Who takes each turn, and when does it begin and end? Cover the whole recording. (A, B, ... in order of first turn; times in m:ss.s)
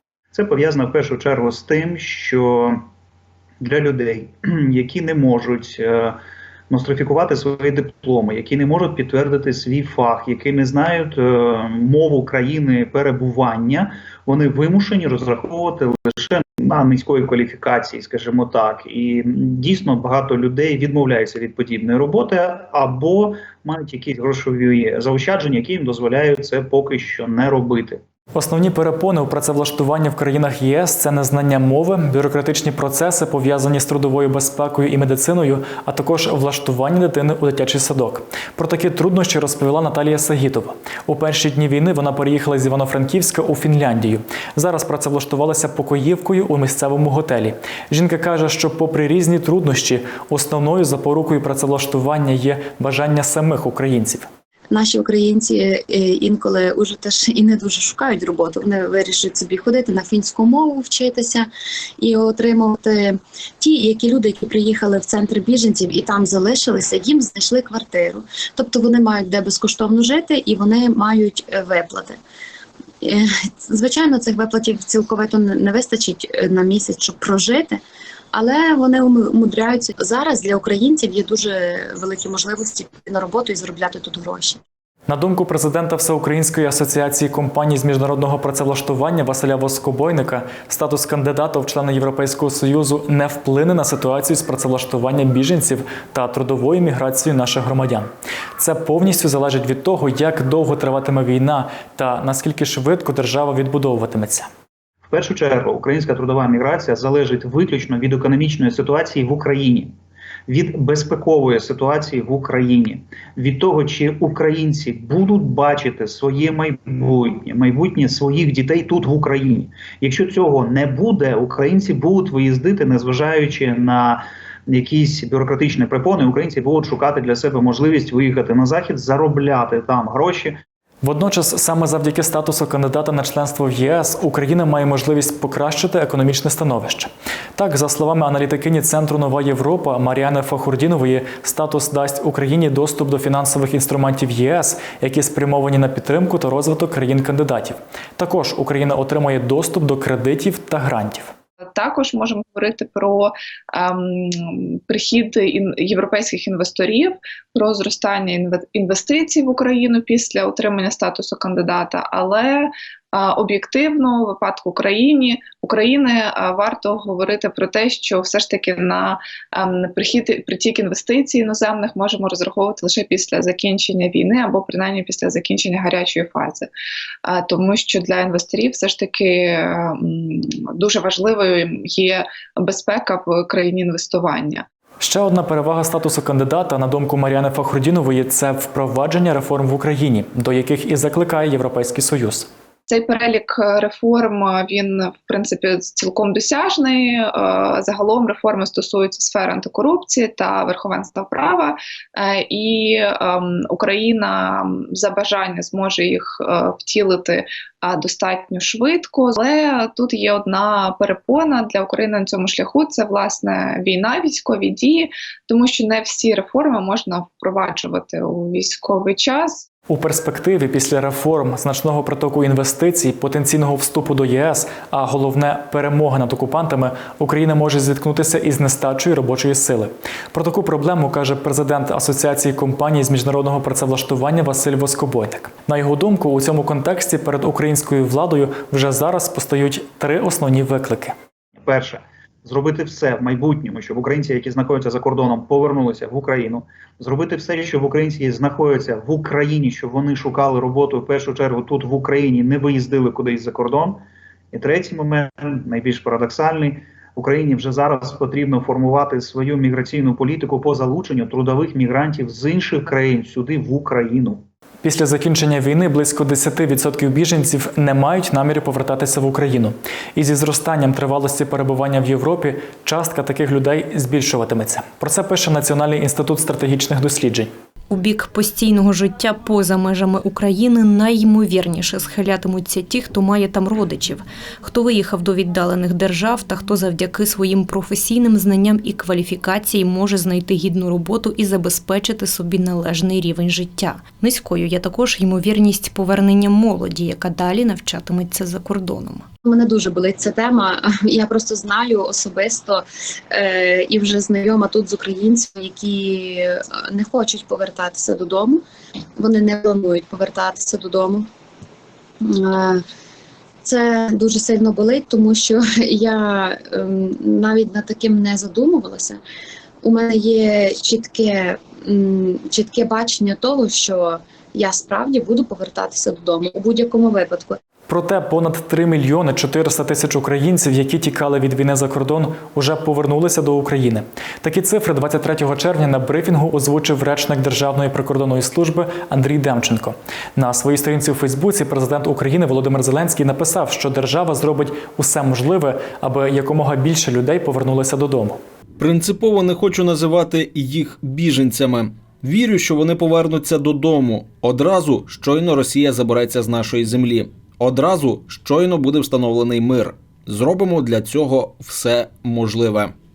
0:00.3-0:02.8 A
0:03.6-0:06.2 A
0:06.7-0:28.0 A
0:28.4-0:54.3 B
0:54.7-1:01.5 C
1:02.0-1:12.2 C
1:13.0-1:17.8 C
1:18.3-1:24.6 C
1:25.1-1:44.5 B
1:45.1-1:49.9 A
1:50.5-2:10.6 A
2:11.0-2:31.3 B
2:31.8-2:56.7 D
2:57.3-3:04.6 D
3:05.0-3:12.5 B
3:12.9-3:39.6 D
3:39.9-4:01.2 B
4:01.6-4:24.4 A
4:24.8-4:37.5 B
4:37.9-4:59.3 E
4:59.4-5:08.6 C
5:09.2-5:11.3 C
5:12.2-5:12.8 C
5:13.6-5:19.2 C
5:19.8-5:27.6 C
5:27.9-5:48.4 B
5:48.8-6:02.9 F